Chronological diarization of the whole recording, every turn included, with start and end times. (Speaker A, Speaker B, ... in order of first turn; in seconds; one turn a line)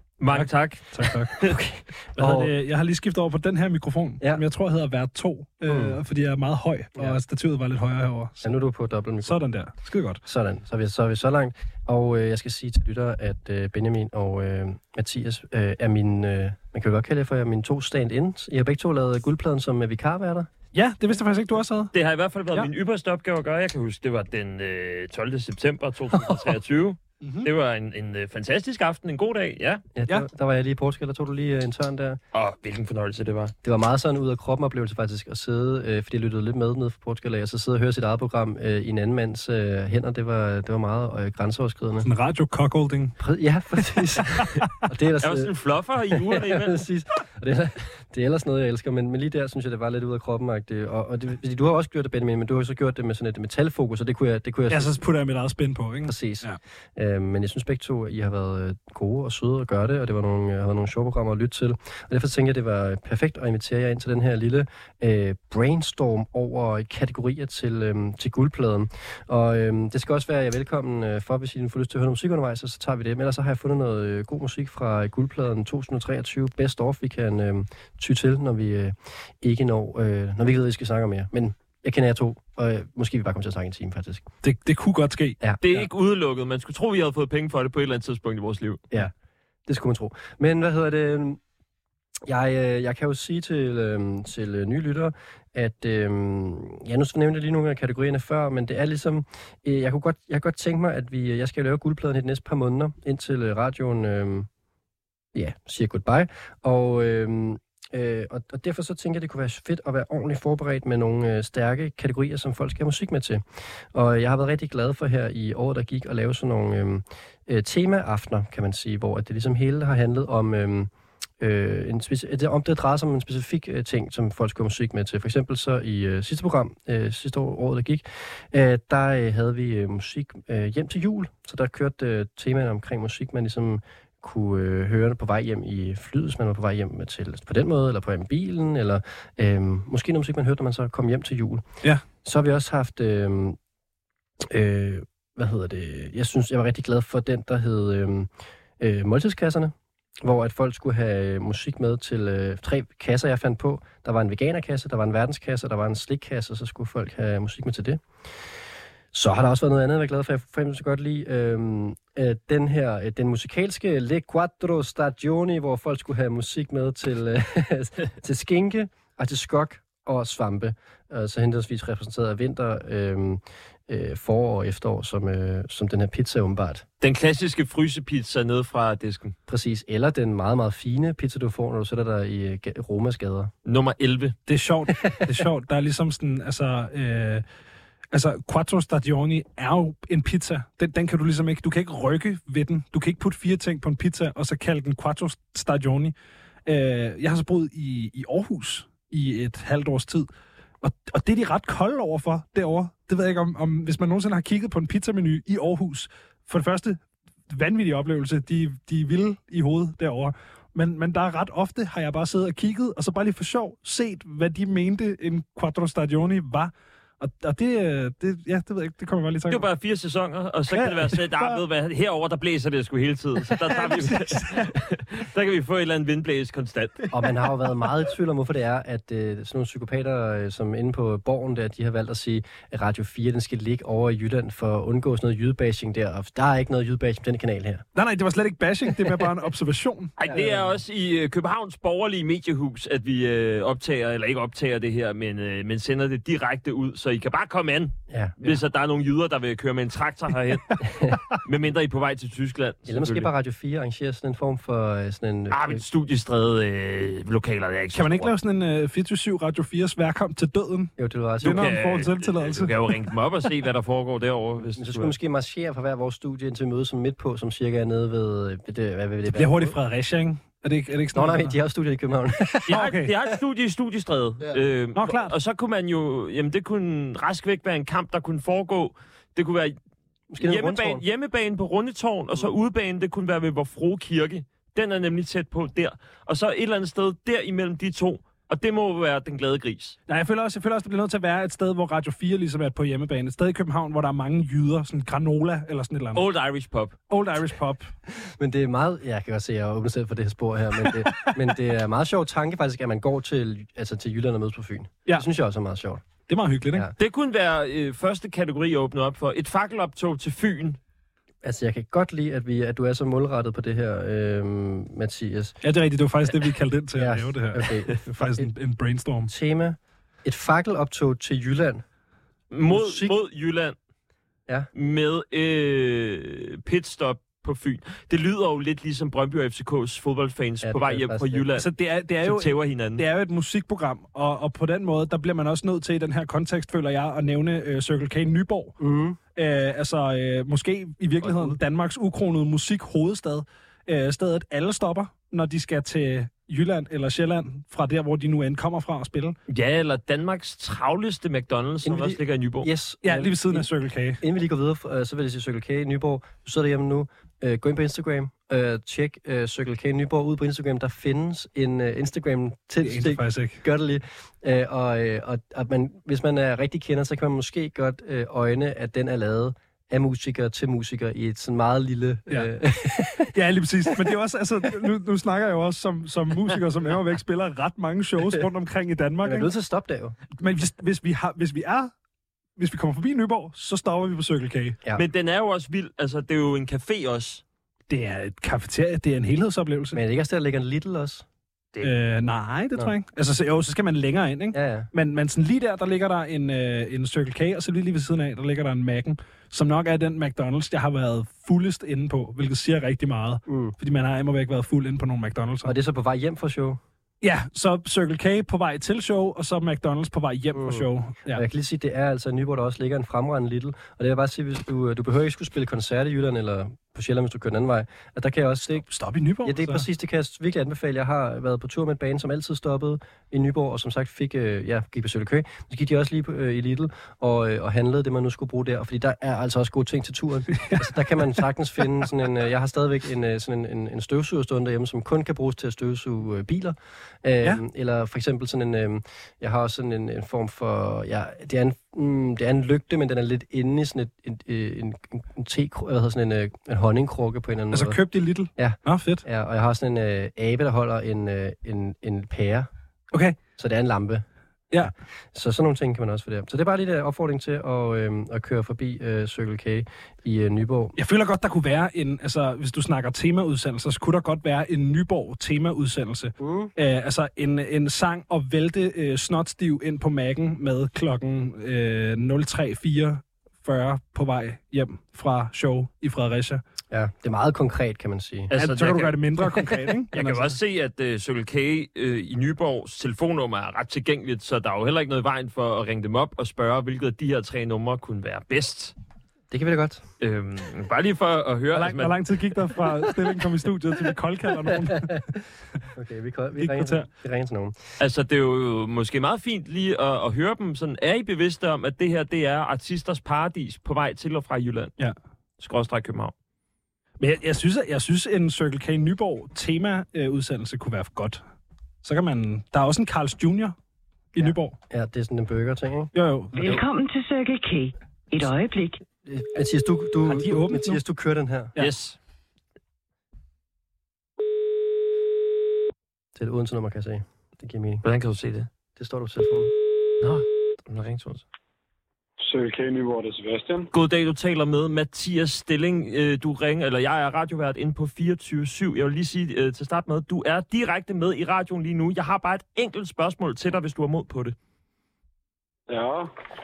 Speaker A: 0.2-1.5
Speaker B: 0.3-1.3
Speaker C: 1.4-2.5
Speaker B: 2.2-8.5
Speaker C: 5.7-6.0
Speaker C: 8.4-9.4
Speaker B: 9.2-10.2
Speaker C: 10.2-20.5
Speaker B: 20.7-21.9
Speaker A: 21.9-29.8
Speaker B: 27.2-27.5
Speaker C: 29.9-32.2
Speaker A: 32.3-33.5
Speaker C: 33.6-42.1
Speaker B: 42.0-43.2
Speaker C: 43.2-45.5
Speaker B: 44.4-44.6
Speaker A: 45.2-46.8
Speaker C: 46.1-55.0
Speaker B: 54.7-56.6
Speaker C: 56.0-84.3
Speaker B: 84.4-85.9
Speaker A: 85.6-88.8
Speaker C: 89.7-91.4
Speaker C: 92.2-104.5
Speaker C: 105.3-141.6
Speaker C: 142.2-143.6
Speaker C: 144.4-158.0
Speaker C: 159.1-176.8
Speaker A: 177.0-179.3
Speaker C: 179.5-183.5
Speaker A: 183.7-184.3
Speaker B: 184.5-187.4
Speaker B: 188.1-196.1
Speaker B: 196.7-200.3
Speaker B: 200.8-219.6
Speaker A: 219.5-227.1
Speaker B: 220.7-221.6
Speaker B: 223.6-224.7
Speaker C: 227.1-237.8
Speaker B: 237.9-240.1
Speaker A: 240.2-253.3
Speaker C: 240.3-240.7
Speaker C: 248.1-248.5
Speaker C: 250.8-251.2
Speaker C: 252.9-255.8
Speaker A: 255.5-258.3
Speaker B: 257.9-262.9
Speaker C: 261.0-261.8
Speaker A: 261.4-265.1
Speaker C: 264.8-269.7
Speaker B: 269.3-271.6
Speaker C: 271.1-272.8
Speaker A: 272.7-279.8
Speaker B: 272.7-273.1
Speaker B: 274.9-275.3
Speaker C: 280.3-281.0
Speaker A: 280.4-290.0
Speaker B: 290.1-296.2
Speaker A: 296.1-297.0
Speaker B: 297.1-297.9
Speaker C: 298.2-306.0
Speaker B: 300.8-301.3
Speaker B: 306.3-306.9
Speaker A: 307.0-310.8
Speaker C: 311.4-315.6
Speaker B: 315.6-319.3
Speaker C: 316.9-318.5
Speaker C: 319.3-321.8
Speaker A: 322.5-323.8
Speaker C: 322.7-323.2
Speaker A: 324.7-331.7
Speaker C: 330.6-331.5
Speaker B: 331.6-338.8
Speaker A: 332.2-333.0
Speaker C: 338.8-339.2
Speaker B: 339.3-349.4
Speaker A: 349.5-352.7
Speaker C: 351.8-353.7
Speaker B: 353.0-354.2
Speaker C: 354.2-373.3
Speaker B: 362.8-363.6
Speaker B: 373.3-379.5
Speaker C: 379.2-380.2
Speaker B: 380.4-381.9
Speaker B: 382.6-384.8
Speaker A: 384.9-387.4
Speaker B: 387.9-390.0
Speaker C: 389.9-391.2
Speaker B: 391.8-405.7
Speaker C: 394.5-394.9
Speaker C: 403.4-403.7
Speaker C: 405.6-406.8
Speaker B: 407.2-411.4
Speaker C: 410.5-418.9
Speaker B: 418.9-419.8
Speaker C: 419.4-448.0
Speaker B: 447.7-449.2
Speaker C: 448.6-452.7
Speaker B: 453.1-453.4
Speaker C: 453.6-454.2
Speaker C: 454.8-460.9
Speaker B: 461.0-476.6
Speaker C: 466.4-466.7
Speaker C: 476.9-478.5
Speaker A: 478.5-479.2
Speaker B: 478.5-480.6
Speaker A: 480.1-488.9
Speaker C: 489.5-490.0
Speaker A: 490.2-492.1
Speaker B: 491.7-495.2
Speaker C: 494.8-495.2
Speaker C: 495.9-497.8
Speaker B: 496.6-497.1
Speaker A: 498.0-504.9
Speaker A: 505.6-506.3
Speaker B: 507.2-511.4
Speaker B: 512.0-513.7
Speaker B: 514.3-514.8
Speaker C: 514.4-516.1
Speaker B: 516.1-516.6
Speaker D: 516.5-519.0
Speaker C: 519.2-521.7
Speaker B: 520.2-521.0
Speaker A: 521.8-522.2
Speaker C: 526.3-528.0
Speaker A: 528.0-528.7
Speaker C: 529.0-529.7
Speaker A: 530.2-531.4
Speaker E: 532.4-533.9
Speaker A: 533.9-544.5
Speaker E: 545.9-546.3